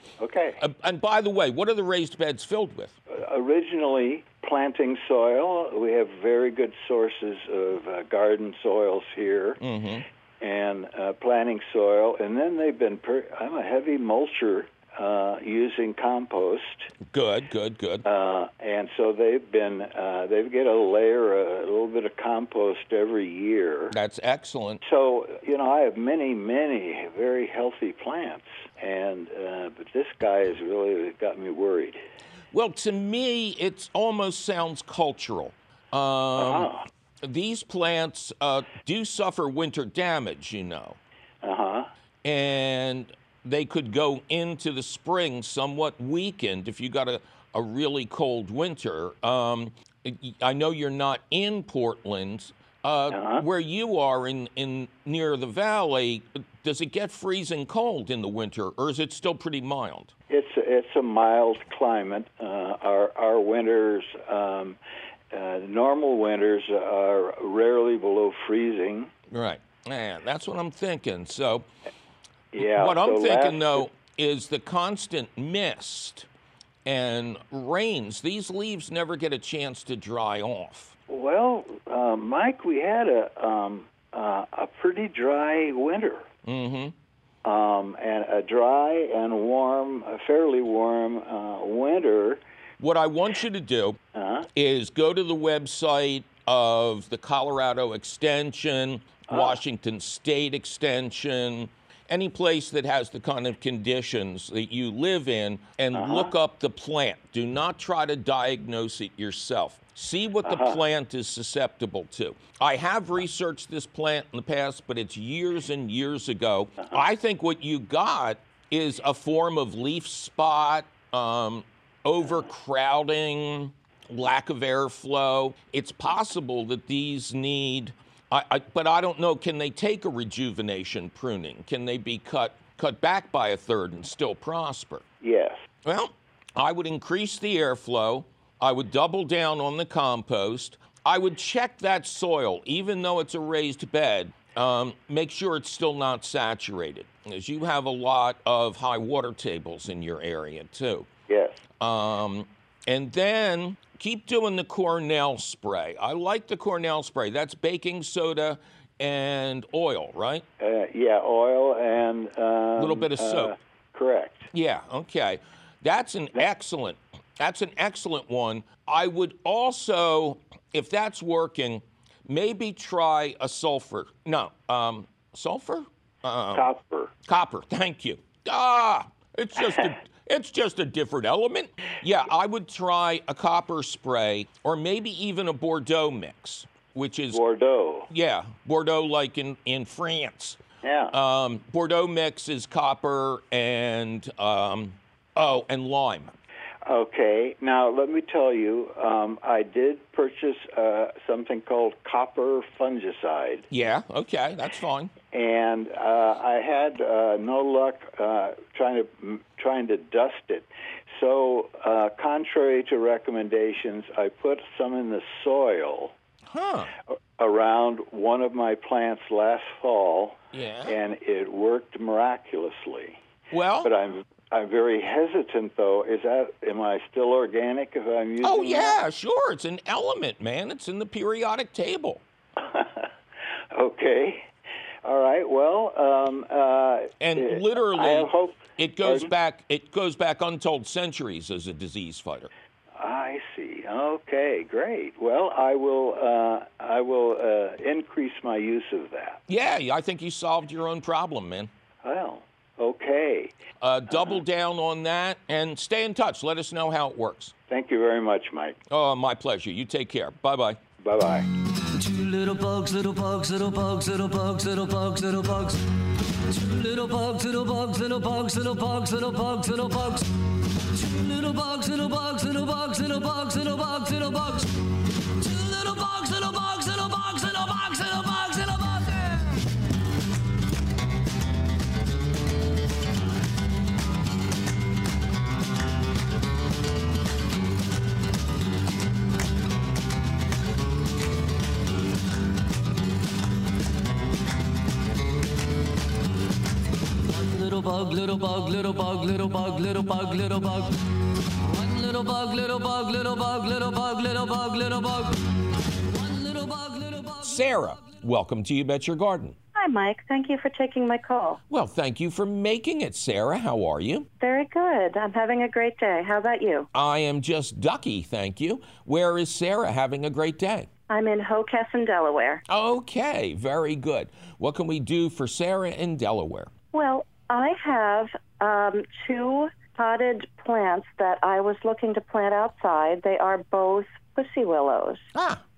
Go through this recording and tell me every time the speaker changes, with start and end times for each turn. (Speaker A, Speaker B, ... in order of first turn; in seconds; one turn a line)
Speaker A: 0.2-0.6
Speaker B: 0.6-3.0
Speaker A: 3.1-9.6
Speaker B: 9.6-10.1
Speaker A: 10.4-16.9
Speaker B: 17.1-18.1
Speaker A: 18.1-23.9
Speaker B: 23.9-24.8
Speaker A: 24.8-32.0
Speaker B: 32.5-36.7
Speaker A: 36.4-36.9
Speaker B: 37.2-41.0
Speaker A: 41.4-41.9
Speaker B: 42.2-60.1
Speaker A: 53.1-53.4
Speaker A: 60.3-64.8
Speaker A: 65.3-69.1
Speaker B: 69.3-71.7
Speaker A: 72.5-73.9
Speaker B: 72.6-76.3
Speaker B: 76.8-80.9
Speaker A: 81.1-86.3
Speaker B: 86.5-86.9
Speaker A: 87.4-92.4
Speaker B: 92.8-94.0
Speaker A: 94.2-94.5
Speaker B: 94.5-135.0
Speaker A: 99.3-99.6
Speaker A: 105.9-106.3
Speaker A: 110.4-110.8
Speaker A: 135.2-135.6
Speaker B: 135.8-151.1
Speaker A: 151.3-151.6
Speaker B: 151.8-160.4
Speaker A: 160.6-164.5
Speaker B: 162.8-163.5
Speaker B: 164.5-176.7
Speaker A: 176.5-177.1
Speaker B: 177.3-187.4
Speaker A: 187.3-188.1
Speaker B: 188.1-190.6
Speaker A: 190.8-191.1
Speaker B: 191.1-196.3
Speaker A: 196.9-203.7
Speaker B: 203.7-205.1
Speaker A: 205.3-216.1
Speaker B: 216.5-216.9
Speaker A: 217.4-223.2
Speaker B: 220.5-220.9
Speaker B: 223.5-223.9
Speaker A: 223.8-229.0
Speaker B: 228.4-232.2
Speaker A: 232.6-233.1
Speaker A: 233.7-234.4
Speaker A: 235.0-239.3
Speaker B: 237.2-242.5
Speaker A: 243.0-249.4
Speaker B: 249.5-251.7
Speaker A: 252.0-253.5
Speaker B: 253.8-257.5
Speaker A: 257.7-258.8
Speaker B: 258.9-260.8
Speaker A: 261.0-261.5
Speaker C: 261.9-265.8
Speaker C: 266.5-270.3
Speaker C: 270.9-274.7
Speaker C: 275.4-279.6
Speaker C: 297.3-300.9
Speaker C: 301.6-305.4
Speaker C: 305.9-308.1
Speaker B: 307.4-309.6
Speaker D: 309.8-311.6
Speaker B: 311.7-314.3
Speaker D: 314.4-316.9
Speaker B: 316.9-320.9
Speaker D: 321.1-322.6
Speaker B: 322.7-326.7
Speaker D: 326.9-335.3
Speaker B: 335.4-335.6